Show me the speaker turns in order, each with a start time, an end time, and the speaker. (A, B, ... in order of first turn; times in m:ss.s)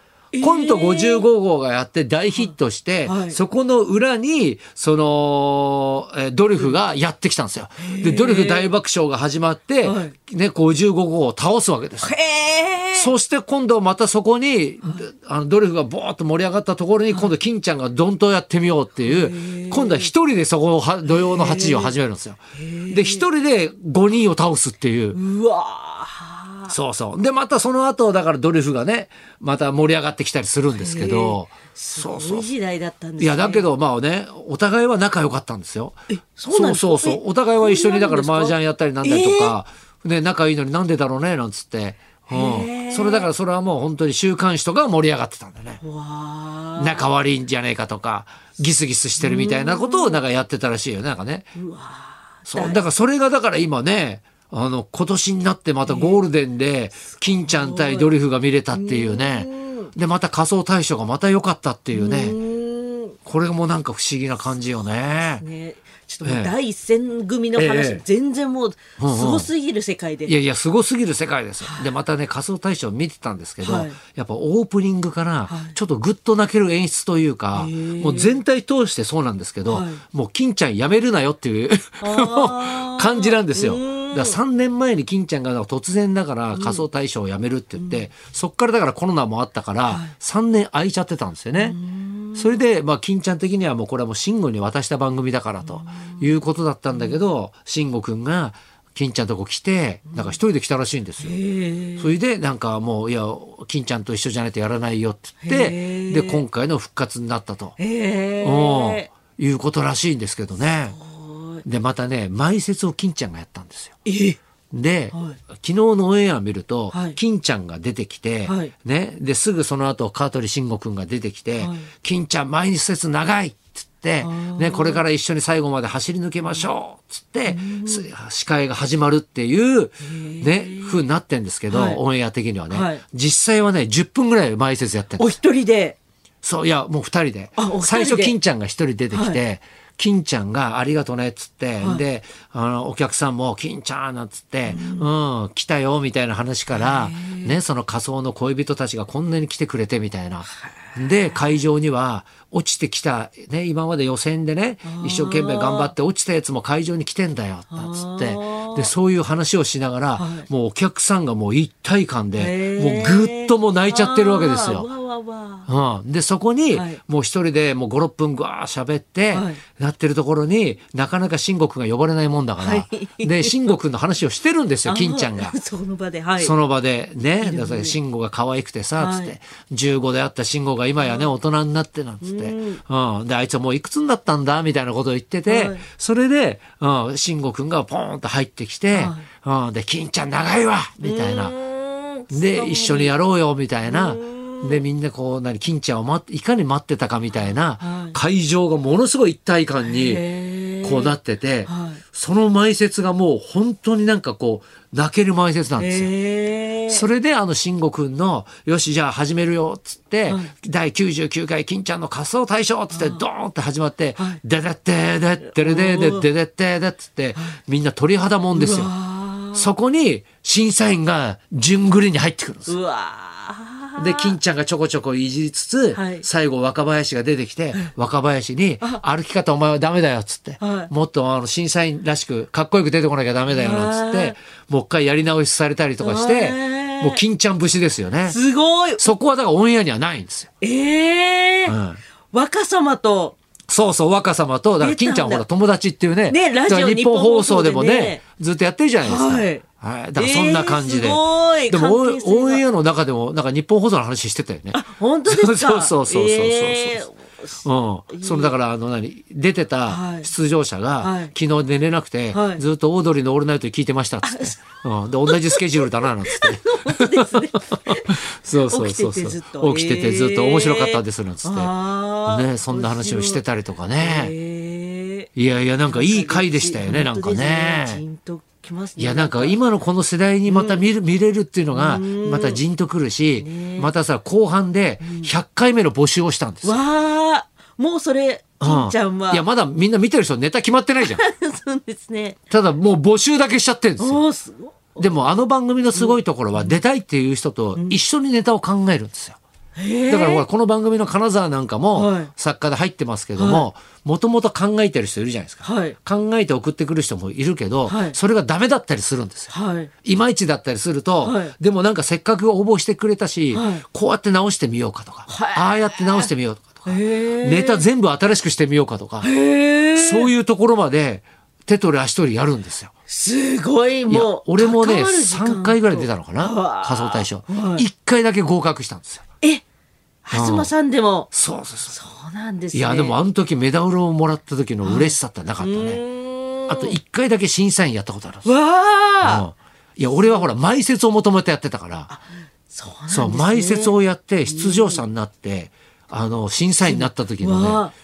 0:00.3-0:01.3 A
0:00.4-0:12.1 B
0:02.3-0:03.4 A
0:07.8-0:08.7 A
0:09.8-0:10.1 A
0:12.0-0:13.1 A
0:12.9-0:25.2 B
0:19.0-0:20.1 A
0:21.1-0:22.0 A
0:22.6-0:23.2 A
0:25.1-0:26.7 A
0:26.7-0:32.5 B
0:30.7-0:33.7 A
0:33.2-0:45.8 B
0:36.2-0:39.6 A
0:42.3-0:43.3 A
0:45.8-0:47.1 A
0:46.8-0:51.5 B
0:49.2-0:50.2 A
0:51.5-0:52.8 A
0:52.5-1:02.4 B
0:55.8-0:56.2 A
0:57.4-0:58.1 A
0:58.7-0:59.9 A
1:01.9-1:03.2 A
1:03.2-1:05.4 B
1:05.4-1:10.3 A
1:06.2-1:06.5 B
1:07.6-1:08.0 B
1:09.0-1:09.5 B
1:10.2-1:31.8 B
1:11.6-1:11.9 A
1:13.6-1:14.0 A
1:15.5-1:15.8 A
1:17.5-1:18.4 A
1:19.6-1:20.0 A
1:22.0-1:24.4 A
1:26.5-1:26.8 A
1:27.8-1:28.1 A
1:29.9-1:30.1 A
1:31.5-1:32.6 A
1:32.3-1:41.4 B
1:35.6-1:36.3 A
1:36.9-1:37.2 A
1:40.1-1:40.4 A
1:41.2-1:42.1 A
1:42.0-1:47.8 B
1:45.4-1:46.4 A
1:47.8-1:49.1 A
1:48.4-1:51.0 B
1:51.0-1:51.6 A
1:51.6-1:53.9 B
1:54.0-1:54.4 A
1:54.7-2:15.3 B
1:55.1-1:55.4 A
1:56.9-1:57.2 A
1:58.4-1:58.7 A
2:01.6-2:01.9 A
2:04.2-2:05.0 A
2:07.4-2:08.1 A
2:10.0-2:11.0 A
2:11.7-2:12.0 A
2:12.7-2:13.0 A
2:15.2-2:16.0 A
2:16.4-2:44.9 B
2:17.6-2:18.3 A
2:19.1-2:19.4 A
2:24.7-2:25.1 A
2:26.7-2:27.6 A
2:30.5-2:31.6 A
2:34.8-2:35.9 A
2:37.7-2:38.9 A
2:40.2-2:40.4 A
2:42.4-2:45.7 A
2:45.7-2:55.5 B
2:46.7-2:47.0 A
2:49.3-2:49.6 A
2:52.6-2:53.7 A
2:54.8-2:56.6 A
2:56.4-3:11.5 B
2:57.4-2:58.0 A
2:59.0-2:59.3 A
3:01.0-3:01.3 A
3:02.2-3:02.8 A
3:05.5-3:05.8 A
3:08.9-3:09.2 A
3:11.0-3:13.1 A
3:12.3-3:20.2 B
3:13.8-3:14.8 A
3:17.6-3:18.2 A
3:19.8-3:22.0 A
3:20.8-3:26.1 B
3:25.8-3:27.0 A
3:26.9-3:38.9 B
3:32.9-3:33.2 A
3:35.5-3:36.3 A
3:38.5-3:39.7 A
3:39.5-3:42.7 B
3:42.6-3:44.4 A
3:44.0-3:58.4 B
3:45.9-3:46.2 A
3:50.6-3:50.9 A
3:53.5-3:54.3 A
3:56.0-3:57.2 A
3:58.3-3:59.0 A
3:59.0-4:00.5 B
4:00.6-4:01.8 A
4:01.6-4:02.0 B
4:02.3-4:03.4 A
4:03.7-4:17.1 B
4:04.8-4:05.4 A
4:06.3-4:08.2 A
4:09.0-4:09.6 A
4:10.2-4:12.6 A
4:14.7-4:18.5 A
4:17.6-4:31.7 B
4:19.9-4:20.3 A
4:21.0-4:21.3 A
4:22.3-4:22.6 A
4:24.2-4:24.6 A
4:25.3-4:33.4 A
4:32.2-4:34.3 B
4:34.0-4:35.3 A
4:35.4-4:38.0 B
4:35.8-4:39.6 A
4:39.0-4:46.8 B
4:40.5-4:40.8 A
4:41.7-4:42.6 A
4:43.4-4:43.9 A
4:45.0-4:45.3 A
4:46.6-4:49.4 A
4:48.6-4:51.2 B
4:51.0-4:52.4 A
4:52.5-4:54.2 B
4:54.0-4:55.2 A
4:55.0-4:59.4 B
4:55.9-4:56.8 A
4:59.7-5:00.4 A
5:00.1-5:19.3 B
5:01.9-5:02.3 A
5:03.4-5:03.7 A
5:05.6-5:06.0 A
5:07.8-5:08.2 A
5:09.5-5:09.9 A
5:11.2-5:11.5 A
5:13.5-5:13.8 A
5:15.3-5:16.3 A
5:16.8-5:17.8 A
5:19.2-5:20.3 A
5:19.9-5:22.9 B
5:23.1-5:27.8 A
5:24.1-5:29.2 B
5:30.2-5:31.3 A
5:30.3-5:30.7 B
5:31.3-5:32.0 B
5:31.9-5:33.2 A
5:32.7-5:36.0 B
5:34.8-5:37.0 A
5:36.7-5:38.5 B
5:38.4-5:39.4 A
5:39.2-5:42.1 B
5:40.1-5:40.5 A
5:42.1-5:45.0 A
5:43.1-5:47.8 B
5:46.8-5:47.9 A